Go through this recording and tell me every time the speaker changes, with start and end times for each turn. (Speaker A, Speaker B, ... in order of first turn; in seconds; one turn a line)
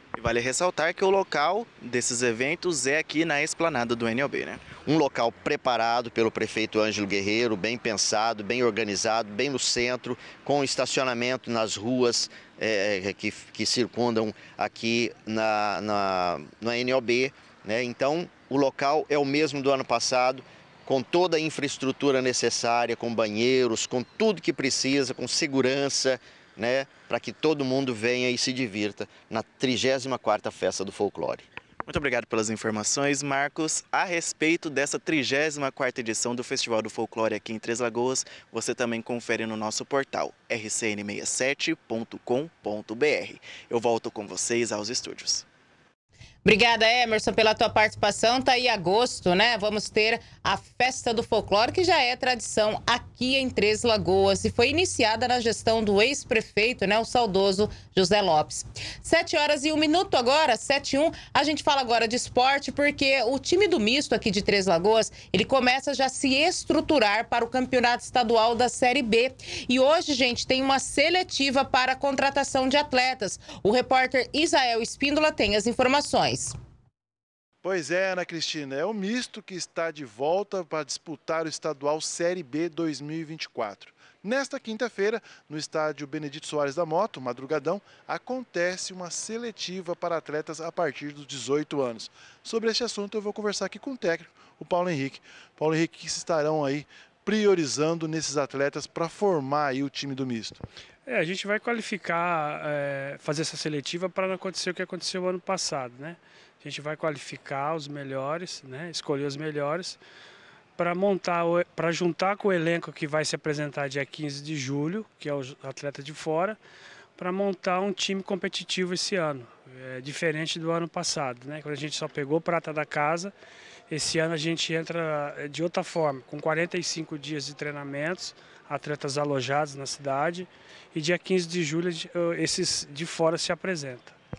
Speaker A: 0.1-4.8
Speaker B: 4.8-31.4
Speaker A: 31.9-45.5
Speaker C: 46.5-76.6
Speaker D: 77.6-100.6
Speaker E: 101.1-110.0
Speaker E: 110.8-116.6
Speaker E: 117.2-123.3
Speaker E: 123.9-134.1